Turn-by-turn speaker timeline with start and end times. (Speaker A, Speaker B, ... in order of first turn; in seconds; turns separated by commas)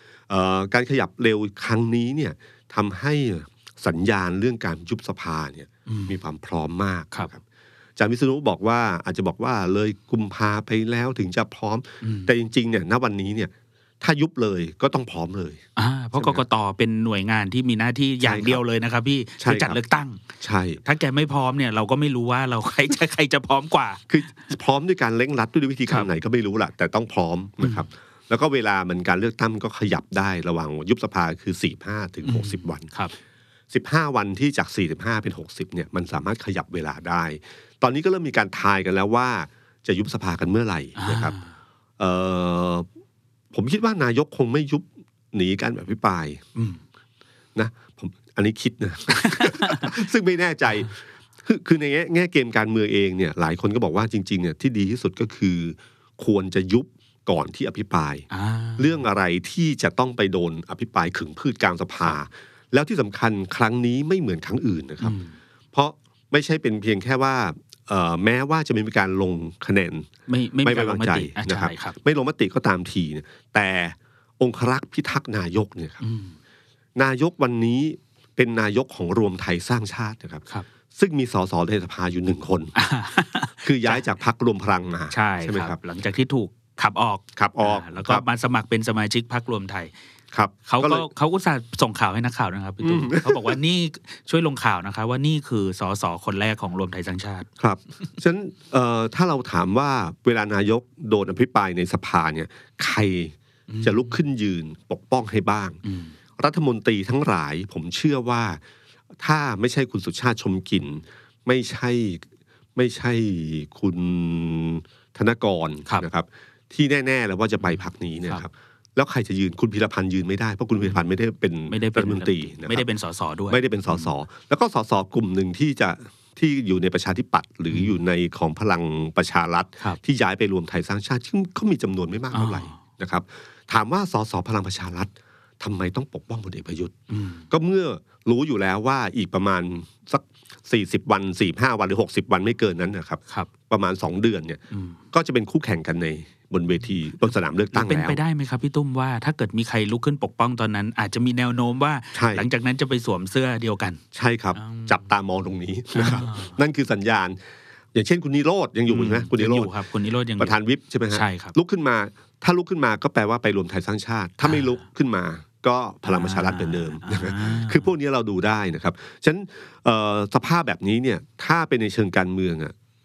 Speaker A: 0.3-7.4, Speaker B: 5.9-6.2, Speaker A: 8.0-15.6, Speaker B: 12.0-12.3, Speaker B: 15.8-20.2, Speaker A: 16.1-16.4, Speaker A: 18.2-18.6, Speaker A: 19.4-19.8, Speaker A: 20.4-20.8, Speaker B: 20.8-24.1, Speaker A: 24.1-32.9, Speaker B: 27.6-27.9, Speaker B: 32.2-33.1, Speaker A: 33.7-41.4, Speaker B: 41.0-41.5, Speaker A: 42.0-42.9, Speaker A: 43.5-46.4, Speaker B: 46.6-46.8, Speaker A: 47.5-58.3, Speaker B: 49.2-49.9, Speaker B: 58.3-59.0, Speaker A: 58.8-65.2, Speaker B: 65.0-65.4, Speaker A: 65.7-70.1, Speaker B: 70.3-72.0, Speaker A: 70.6-76.0, Speaker B: 76.0-76.4, Speaker A: 77.0-82.7, Speaker B: 82.8-84.0, Speaker A: 83.6-85.8, Speaker B: 85.1-89.9, Speaker A: 87.4-88.2, Speaker A: 90.3-91.1, Speaker B: 90.7-97.5, Speaker A: 92.8-93.6, Speaker A: 97.6-105.8, Speaker B: 103.7-104.2, Speaker B: 105.8-106.2, Speaker A: 106.4-108.6, Speaker A: 109.2-122.9, Speaker B: 117.6-118.5, Speaker B: 121.7-124.1, Speaker A: 123.5-136.9, Speaker B: 132.3-132.8, Speaker B: 137.1-137.5, Speaker A: 137.5-144.6, Speaker B: 144.7-145.0, Speaker A: 145.1-148.2, Speaker B: 147.7-154.0, Speaker A: 152.2-152.5, Speaker A: 154.1-157.4, Speaker B: 154.6-155.0, Speaker B: 155.9-156.6, Speaker A: 157.9-159.8, Speaker B: 158.9-160.6, Speaker A: 160.4-172.7, Speaker B: 161.1-161.6, Speaker B: 166.1-167.9